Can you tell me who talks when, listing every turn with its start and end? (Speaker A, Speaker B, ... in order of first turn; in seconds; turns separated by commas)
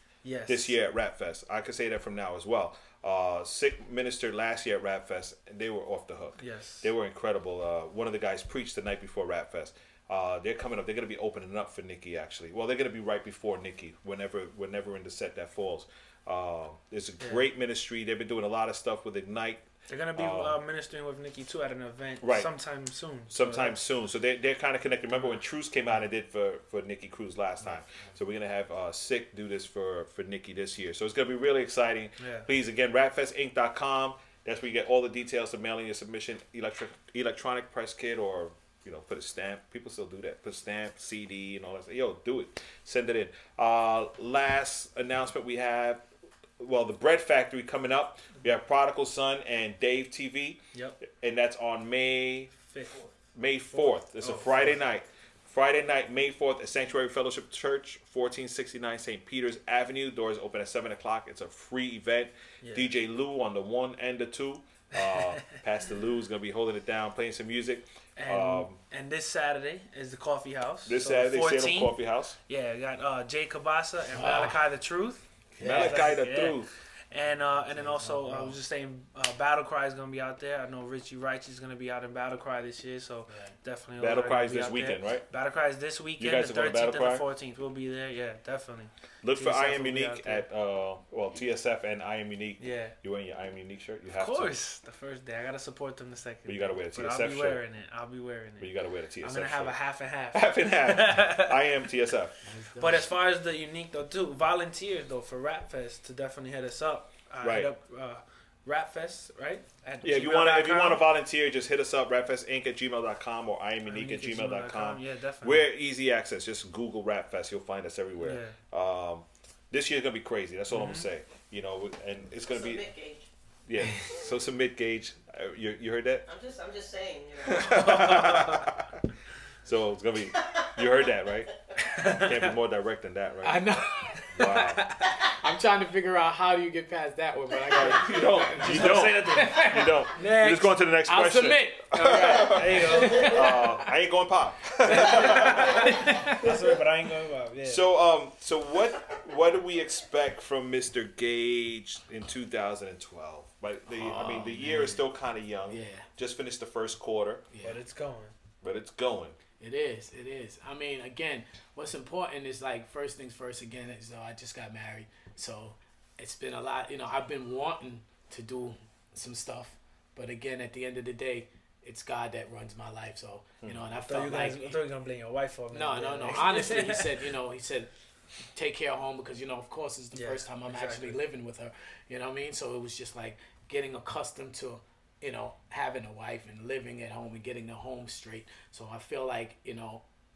Speaker A: 0.2-0.7, Speaker B: 0.5-20.6, Speaker A: 6.4-6.9, Speaker A: 17.2-17.4, Speaker A: 19.9-23.8, Speaker B: 22.2-22.5, Speaker B: 23.3-46.0, Speaker C: 27.6-28.1, Speaker A: 32.2-32.5, Speaker B: 46.6-52.5, Speaker A: 50.7-51.0, Speaker A: 52.5-53.1, Speaker B: 53.3-68.8, Speaker A: 53.7-54.8, Speaker A: 62.6-62.9, Speaker A: 65.0-65.3, Speaker A: 68.2-90.4, Speaker B: 70.8-72.4, Speaker C: 74.1-74.6, Speaker C: 75.5-76.1, Speaker B: 75.6-76.7, Speaker C: 77.7-78.5, Speaker C: 83.3-83.5, Speaker B: 84.0-85.3, Speaker B: 86.2-87.2, Speaker B: 89.2-94.6, Speaker A: 92.6-93.0, Speaker A: 94.1-101.7, Speaker B: 96.4-97.6, Speaker B: 98.6-99.8, Speaker B: 100.3-102.3, Speaker C: 102.4-103.1, Speaker A: 102.8-111.0, Speaker B: 107.4-107.7, Speaker B: 110.0-122.8, Speaker A: 113.8-115.7, Speaker A: 118.2-118.6, Speaker A: 120.7-121.1, Speaker D: 122.5-123.3, Speaker B: 123.7-126.3, Speaker D: 126.2-127.9, Speaker B: 127.5-129.0, Speaker A: 128.0-128.6, Speaker B: 129.6-133.7, Speaker A: 132.0-132.5, Speaker C: 133.4-140.0, Speaker B: 134.3-134.9, Speaker B: 137.7-146.8, Speaker A: 138.1-140.8, Speaker C: 141.1-143.9, Speaker A: 142.4-143.3, Speaker C: 144.8-146.5, Speaker A: 144.8-147.9, Speaker B: 147.6-157.4, Speaker C: 153.9-155.0, Speaker C: 155.7-156.1, Speaker C: 157.5-157.8, Speaker A: 157.6-158.3, Speaker B: 158.6-159.4, Speaker C: 159.6-174.8, Speaker A: 174.1-177.2, Speaker C: 175.7-177.9, Speaker C: 178.5-190.0, Speaker A: 180.1-181.2